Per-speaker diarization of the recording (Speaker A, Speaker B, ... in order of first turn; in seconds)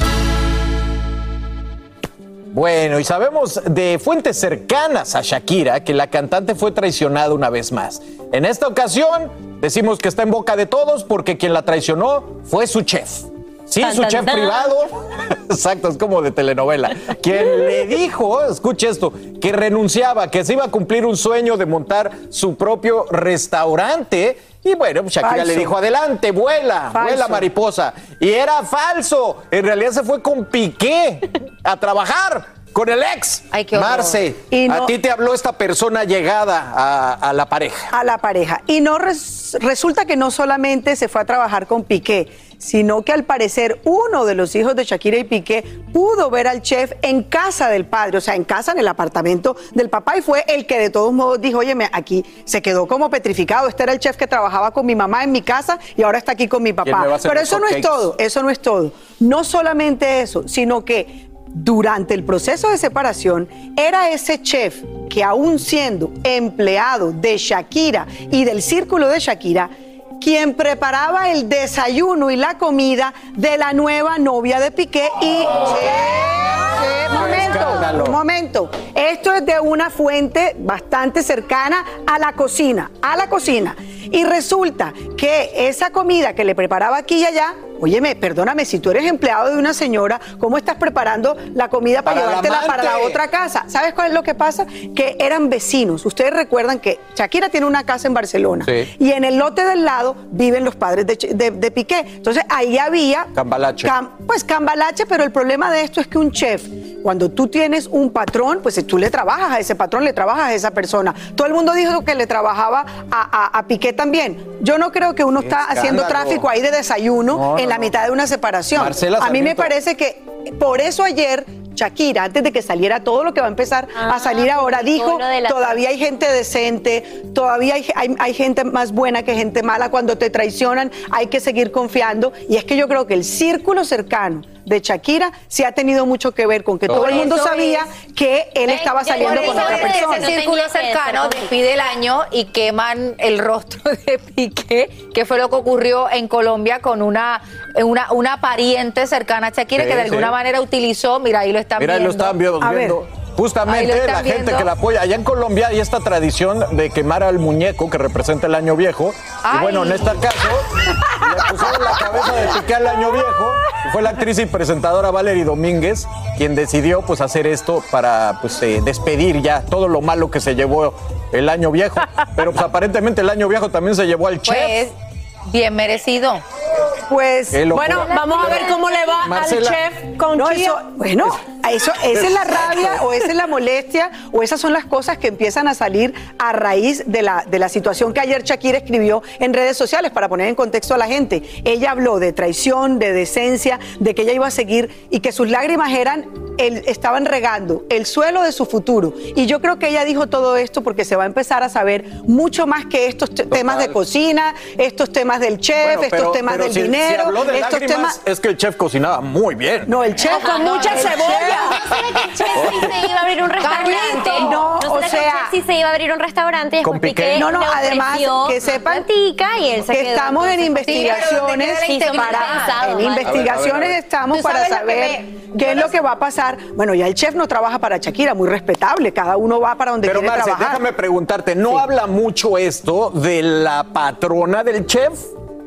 Speaker A: 2.5-37.9, 56.8-58.1, 75.5-78.2, 92.0-93.2, 98.6-98.9, 103.3-103.9, 115.4-116.5, 117.3-117.9, 118.7-119.7, 136.9-137.2, 149.7-150.3, 151.8-174.9, 177.5-179.8, 182.1-183.1, 203.5-204.0, 205.8-209.9, 212.6-212.9, 216.8-217.5, 223.2-224.0, 230.0-235.3
Speaker B: 13.8-14.7, 123.9-125.8, 138.7-141.5, 178.1-179.2, 211.9-223.4, 224.3-225.0
Speaker C: 25.2-25.7, 26.9-27.4, 34.5-34.9, 37.9-103.3, 103.8-140.3, 152.6-153.0, 177.1-177.7, 180.3-208.2, 209.9-211.8, 214.1-215.5, 217.3-219.1, 219.9-230.8
Speaker D: 33.5-34.2, 136.9-137.8, 138.7-152.4, 153.7-154.7, 159.4-160.2, 174.4-174.9, 175.5-176.4, 210.2-212.9, 213.6-214.6, 220.8-223.2, 224.4-225.1
Speaker E: 177.7-180.8, 210.4-211.8